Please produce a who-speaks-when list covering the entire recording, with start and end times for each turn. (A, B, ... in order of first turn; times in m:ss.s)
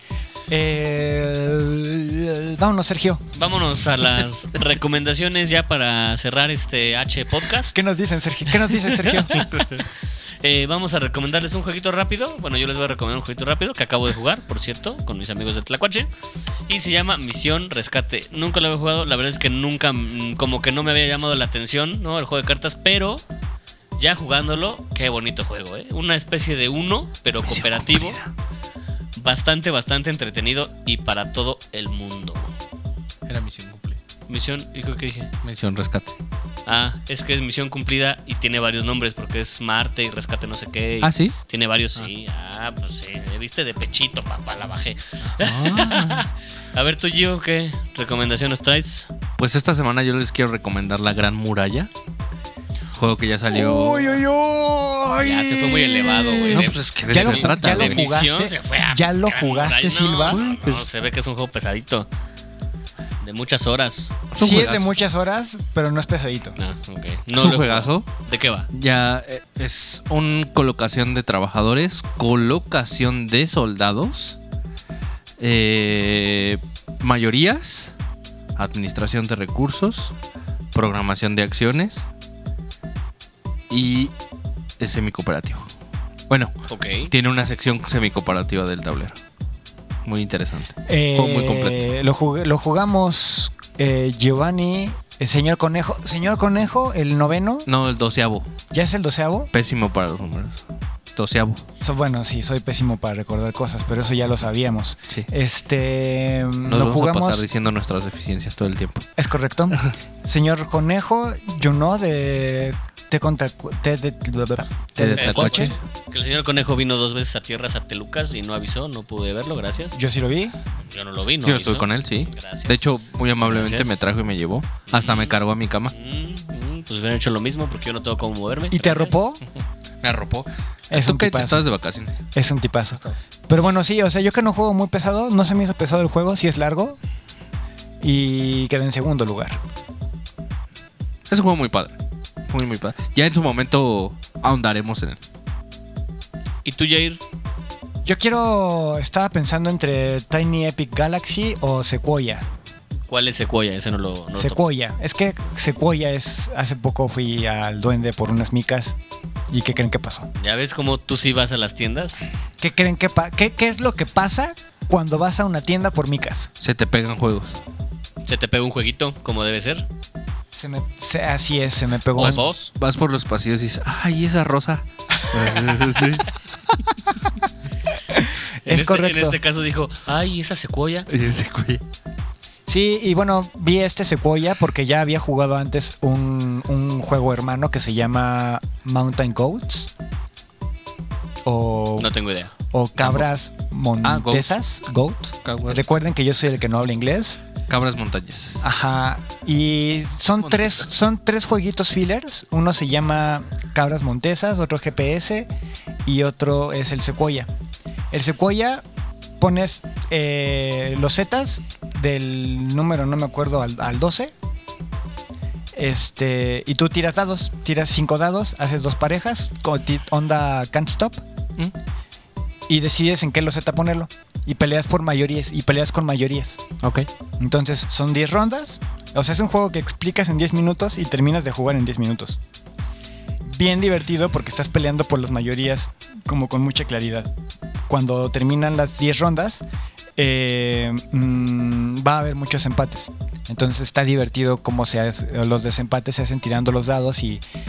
0:00.5-0:03.2 A
0:03.4-0:07.8 B
0:07.7-0:09.4 A
0:08.9-0:09.8 B
0:10.4-0:16.1 B
0:16.7-0:23.2 B
0:24.0-0:28.2 B
0:27.4-0:28.3 C
0:29.2-0:32.5 B
0:33.3-0:34.0 C
0:34.3-0:35.3 B
0:35.4-0:36.1 C
0:36.6-0:49.1 B
0:41.0-0:41.3 C
0:45.3-0:46.2 C
0:49.4-0:51.9 C
0:52.9-0:54.2 C
0:53.5-1:00.4 A
0:55.2-1:02.1 B
0:56.5-0:58.0 C
1:00.3-1:00.9 C
1:03.2-1:04.2 B
1:04.3-1:04.9 C
1:04.4-1:06.6 A
1:06.6-1:08.7 B
1:07.3-1:08.1 C
1:08.7-1:14.4 C
1:15.4-1:17.9 C
1:18.6-1:20.1 C
1:20.7-1:22.1 C
1:23.7-1:24.1 C
1:24.8-1:25.6 C
1:26.3-1:26.5 C
1:26.7-1:27.1 B
1:27.1-1:29.2 C
1:30.0-1:31.9 C
1:30.9-1:37.7 A
1:37.7-1:38.5 C
1:38.7-1:39.5 A
1:39.5-1:40.6 C
1:41.2-1:41.6 C
1:41.8-1:47.4 A
1:46.7-1:49.1 C
1:49.2-1:55.8 A
1:55.0-1:55.8 C
1:55.2-2:00.0 B
1:59.9-2:00.6 A
2:00.9-2:02.9 B
2:01.4-2:05.9 C
2:03.4-2:04.0 B
2:04.9-2:05.4 B
2:05.9-2:09.2 B
2:08.7-2:09.4 A
2:10.0-2:12.1 C
2:10.9-2:11.7 A
2:12.3-2:17.0 A
2:18.0-2:19.6 A
2:21.3-2:21.9 C
2:22.5-2:25.2 C
2:26.6-2:27.2 B
2:28.0-2:32.5 A
2:33.1-2:34.6 B
2:34.4-2:39.0 A
2:39.5-2:40.3 A
2:40.4-2:42.3 B
2:42.6-2:46.5 A
2:46.6-2:47.6 C
2:48.2-2:49.8 B
2:50.5-2:52.5 A
2:52.2-2:52.7 B
2:52.2-2:56.4 C
2:58.1-2:59.4 A
2:58.6-3:01.1 B
3:01.1-3:01.8 C
3:02.7-3:09.9 A
3:11.4-3:17.4 A
3:12.0-3:12.5 B
3:13.0-3:13.3 C
3:14.0-3:14.5 C
3:15.4-3:15.8 C
3:17.7-3:18.7 C
3:18.6-3:25.5 A
3:20.4-3:20.9 C
3:26.0-3:27.5 A
3:28.1-3:28.8 A
3:29.4-3:34.3 A
3:35.7-3:41.2 A
3:42.7-3:46.6 A
3:46.8-3:47.1 C
3:47.4-3:52.4 A
3:53.4-3:57.3 A
3:57.9-3:59.6 A
4:00.2-4:07.4 A